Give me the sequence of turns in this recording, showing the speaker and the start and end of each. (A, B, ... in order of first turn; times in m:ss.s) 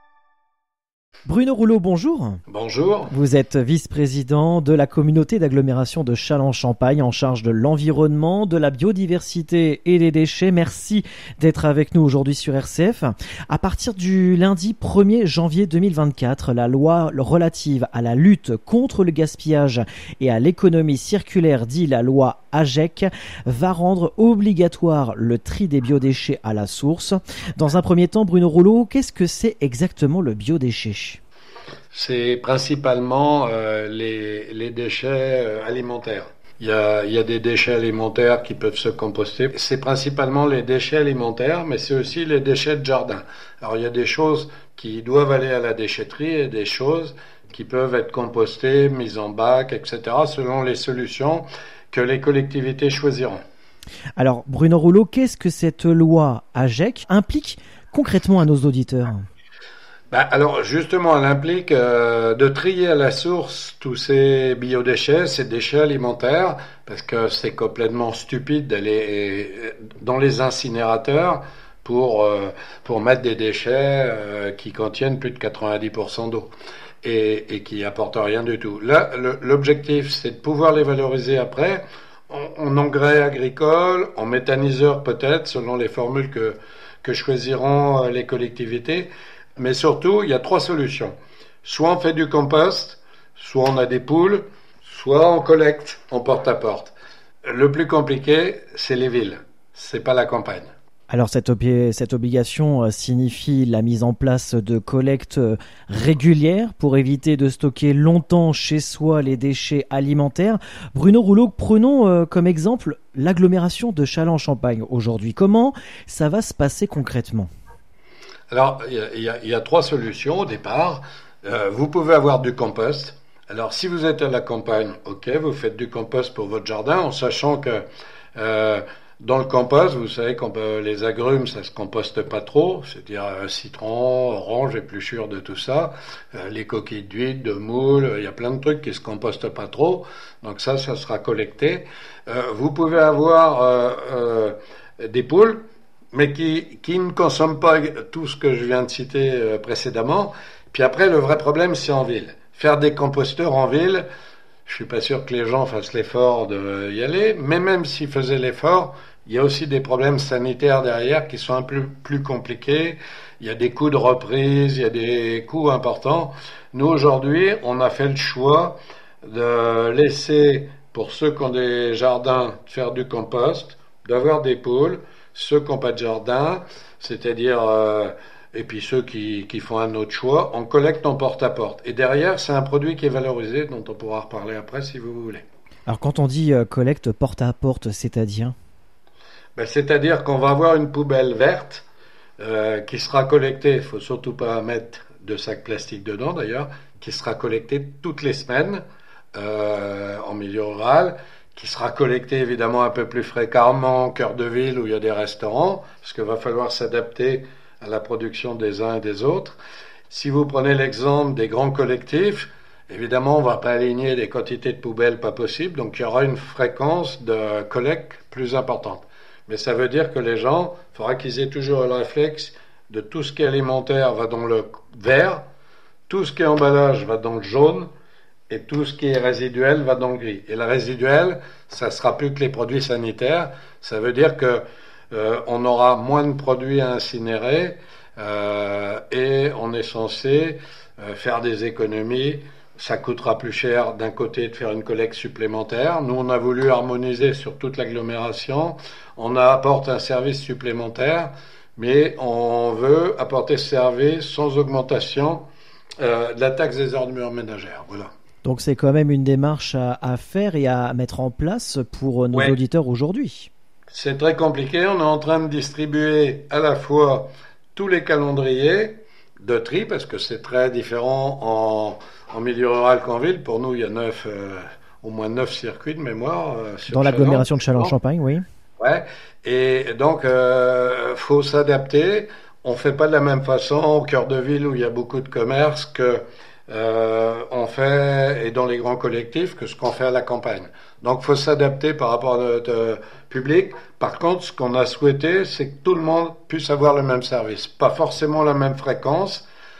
0:01.2-0:02.4 A
0:02.5-0:03.1 B
0:03.1-0:31.2 A
0:31.9-0:53.4 B
0:54.2-0:59.2 A
1:00.1-1:16.5 B
1:17.0-1:36.9 B
1:37.4-1:40.7 B
1:41.1-1:57.5 A
1:58.5-2:07.8 B
2:08.4-2:25.6 B
2:26.1-2:34.0 B
2:34.6-3:05.4 B
3:05.9-3:08.5 A
3:09.6-3:11.8 B
3:12.4-3:18.8 B
3:19.3-3:29.6 B
3:30.1-3:45.4 B
3:46.1-3:47.9 B
3:48.5-4:15.5 B
4:16.0-4:18.1 B
4:18.4-4:23.5 A
4:23.9-4:37.9 B
4:36.9-4:38.4 A
4:38.8-4:59.4 B